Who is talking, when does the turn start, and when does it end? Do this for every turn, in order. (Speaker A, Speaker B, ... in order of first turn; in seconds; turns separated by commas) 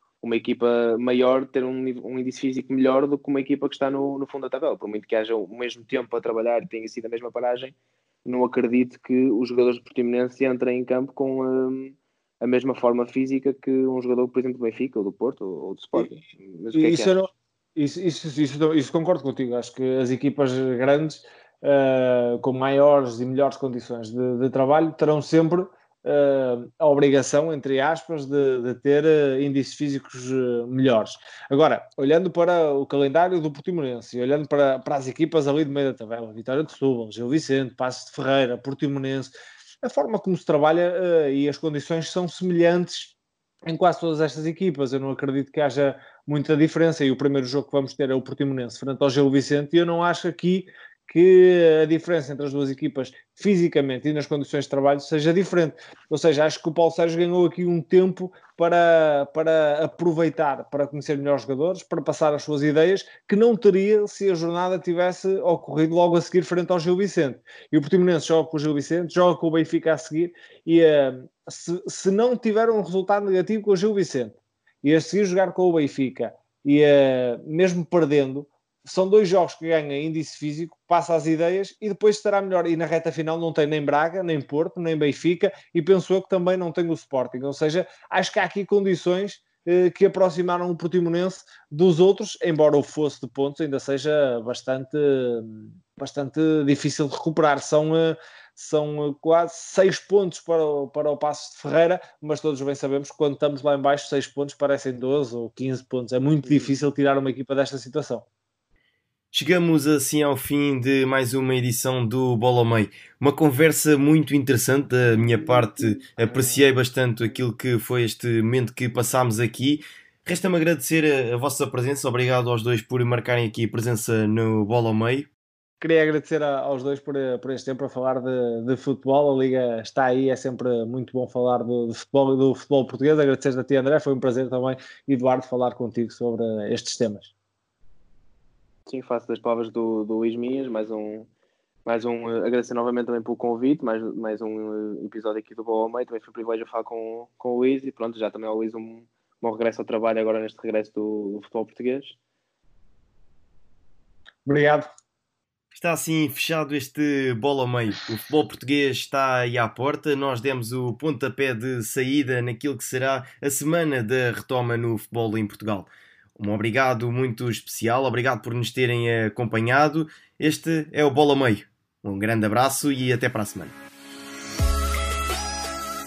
Speaker A: 0.2-17.2, Speaker B: 16.7-43.1, Speaker B: 43.7-108.3, Speaker C: 109.3-125.3, Speaker B: 125.8-137.3, Speaker A: 138.9-141.3, Speaker A: 141.9-152.2, Speaker B: 154.5-154.9, Speaker C: 155.7-173.8